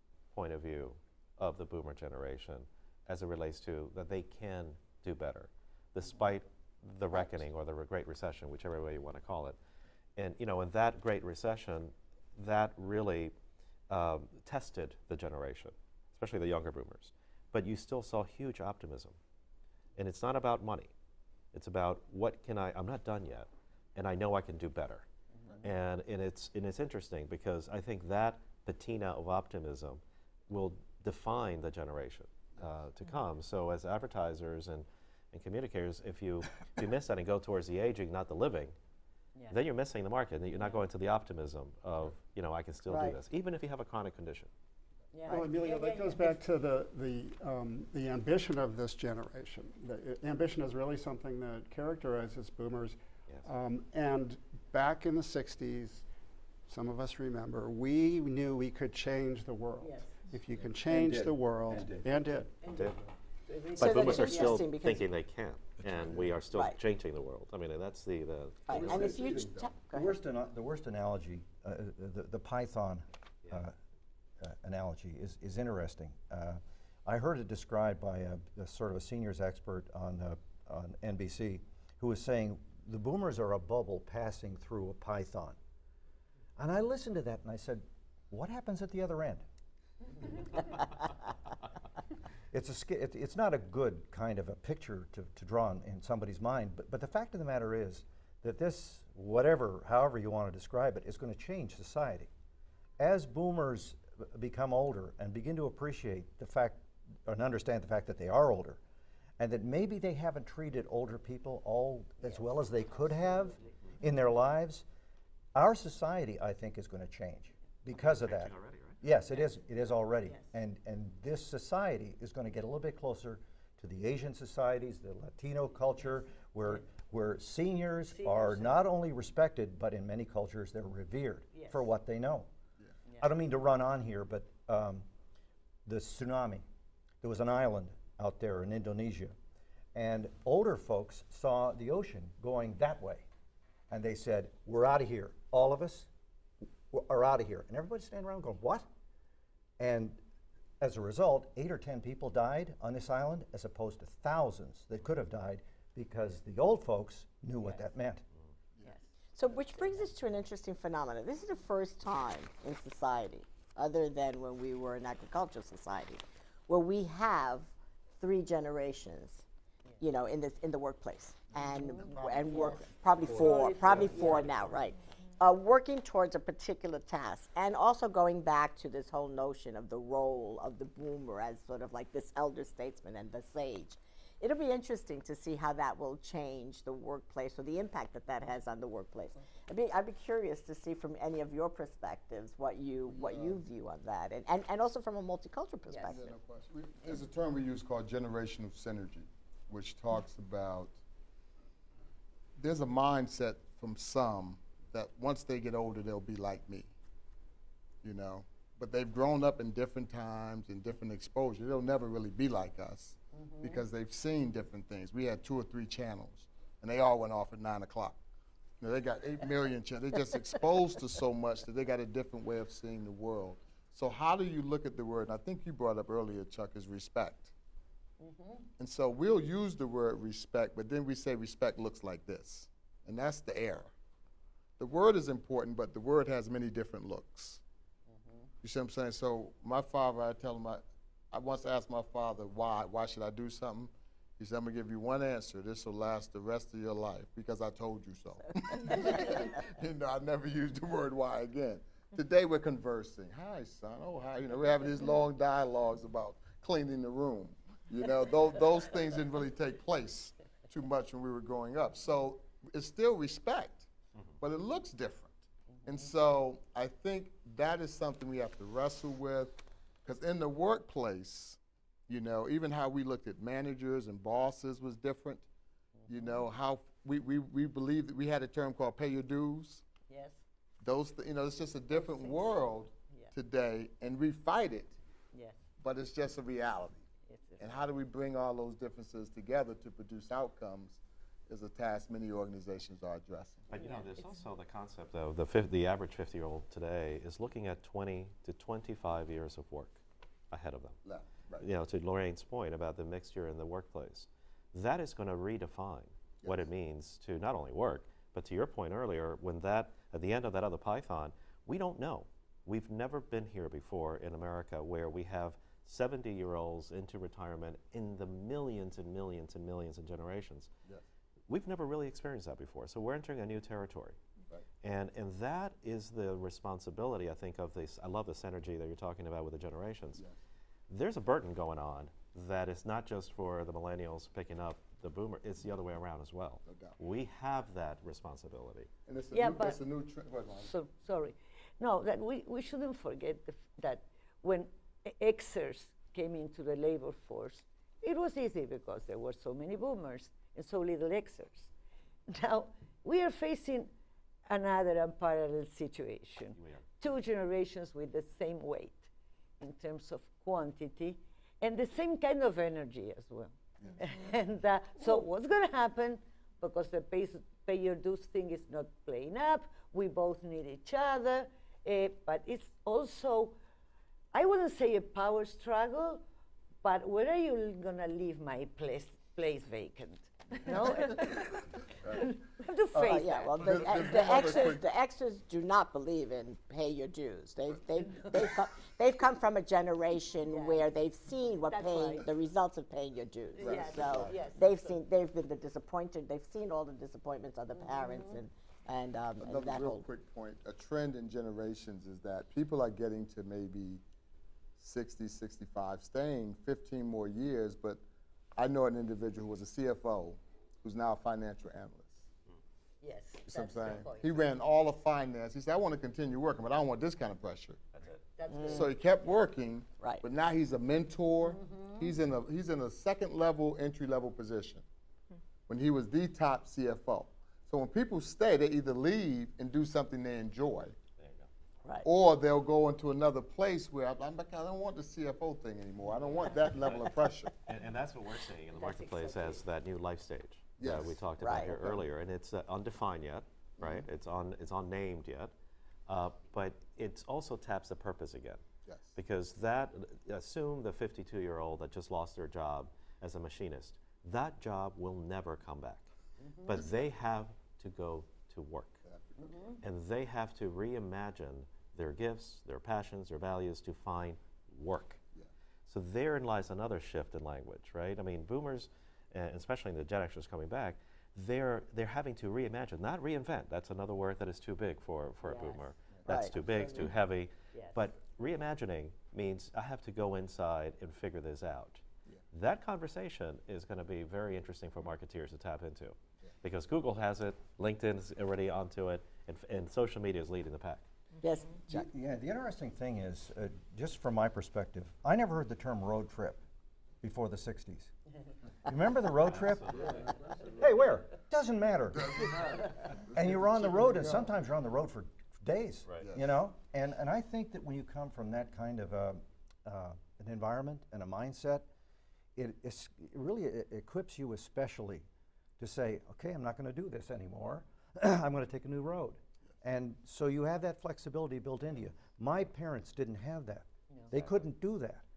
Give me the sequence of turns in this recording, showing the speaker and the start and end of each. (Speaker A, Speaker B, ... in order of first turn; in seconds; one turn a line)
Speaker A: 0.3-9.6
Speaker A: 10.2-13.3
Speaker A: 13.9-19.2
Speaker A: 19.9-20.9
Speaker A: 21.5-25.1
Speaker A: 25.6-38.7
Speaker A: 39.5-44.5
Speaker B: 40.5-40.8
Speaker C: 42.9-43.2
Speaker B: 45.1-46.4
Speaker D: 45.3-56.0
Speaker D: 56.7-62.5
Speaker B: 59.8-60.2
Speaker E: 60.8-62.1
Speaker B: 62.6-64.7
Speaker A: 62.7-63.0
Speaker A: 63.8-69.2
Speaker C: 63.8-65.1
Speaker C: 66.5-66.8
Speaker C: 68.7-70.1
Speaker F: 68.8-69.7
Speaker E: 68.9-73.7
Speaker E: 74.4-85.6
Speaker E: 86.6-89.4
Speaker E: 92.5-102.3
Speaker E: 103.0-108.8
Speaker E: 109.4-114.8
Speaker B: 112.2-113.8
Speaker E: 115.5-132.5
Speaker A: 117.9-119.0
Speaker B: 120.2-120.5
Speaker B: 128.1-128.8
Speaker B: 131.5-131.9
Speaker E: 133.2-135.1
Speaker E: 135.8-136.6
Speaker E: 137.2-139.3
Speaker E: 139.9-143.3
Speaker E: 143.9-146.1
Speaker E: 146.9-148.8
Speaker E: 149.8-150.2
Speaker E: 150.8-158.2
Speaker B: 157.6-157.8
Speaker C: 159.3-169.4
Speaker C: 170.0-196.3
Speaker F: 171.5-172.8
Speaker B: 171.8-174.8
Speaker E: 173.8-174.4
Speaker F: 174.0-174.4
Speaker F: 193.1-193.6
Speaker B: 195.9-196.2
Speaker F: 196.1-200.9
Speaker F: 202.6-206.9
Speaker F: 208.0-218.2
Speaker B: 213.3-213.8
Speaker F: 218.8-227.5
Speaker B: 228.2-228.7
Speaker F: 228.8-233.9
Speaker F: 234.8-237.6
Speaker B: 238.1-238.5
Speaker F: 238.6-263.9
Speaker F: 264.4-275.4
Speaker B: 265.7-266.1
Speaker B: 276.0-276.4
Speaker F: 276.1-279.9
Speaker B: 280.0-280.4
Speaker F: 280.8-284.9
Speaker B: 281.9-283.3
Speaker F: 285.8-287.1
Speaker B: 287.2-287.8
Speaker F: 287.6-293.7
Speaker A: 293.7-301.0
Speaker B: 293.7-294.4
Speaker F: 301.0-301.7
Speaker A: 301.6-320.7
Speaker F: 306.4-306.7
Speaker A: 321.5-324.2
Speaker A: 324.8-330.2
Speaker A: 330.9-338.9
Speaker F: 336.6-336.9
Speaker F: 339.1-340.7
Speaker B: 339.3-339.8
Speaker B: 340.6-351.7
Speaker B: 352.3-353.9
Speaker B: 354.4-359.1
Speaker B: 359.6-373.6
Speaker B: 374.3-376.2
Speaker B: 376.8-384.6
Speaker C: 382.9-400.1
Speaker F: 383.6-384.8
Speaker B: 388.1-388.6
Speaker B: 390.4-390.9
Speaker B: 391.7-392.3
Speaker B: 393.6-395.0
Speaker F: 393.6-394.4
Speaker B: 397.7-398.4
Speaker F: 399.4-404.0
Speaker F: 404.8-408.0
Speaker F: 408.6-412.2
Speaker B: 413.0-414.6
Speaker F: 413.5-417.8
Speaker B: 418.1-419.0
Speaker C: 418.5-418.9
Speaker F: 418.6-424.8
Speaker B: 421.4-422.1
Speaker F: 425.7-430.9
Speaker A: 431.2-431.5
Speaker F: 432.0-437.5
Speaker A: 437.7-445.5
Speaker B: 438.7-439.6
Speaker F: 440.8-442.0
Speaker C: 441.4-441.7
Speaker A: 446.1-448.6
Speaker F: 448.9-449.1
Speaker A: 449.1-456.1
Speaker B: 456.4-456.8
Speaker A: 456.6-459.0
Speaker F: 459.0-459.7
Speaker B: 459.4-459.8
Speaker A: 459.8-465.2
Speaker A: 465.9-491.1
Speaker B: 475.4-475.9
Speaker C: 476.3-476.5
Speaker B: 476.4-477.1
Speaker B: 477.7-478.0
Speaker C: 491.4-492.1
Speaker E: 491.9-496.6
Speaker E: 497.2-498.1
Speaker E: 498.8-500.0
Speaker A: 499.4-500.2
Speaker F: 499.9-500.9
Speaker E: 500.7-502.6
Speaker F: 502.1-504.5
Speaker E: 503.3-511.9
Speaker F: 506.2-506.4
Speaker E: 512.5-515.2
Speaker E: 515.8-525.2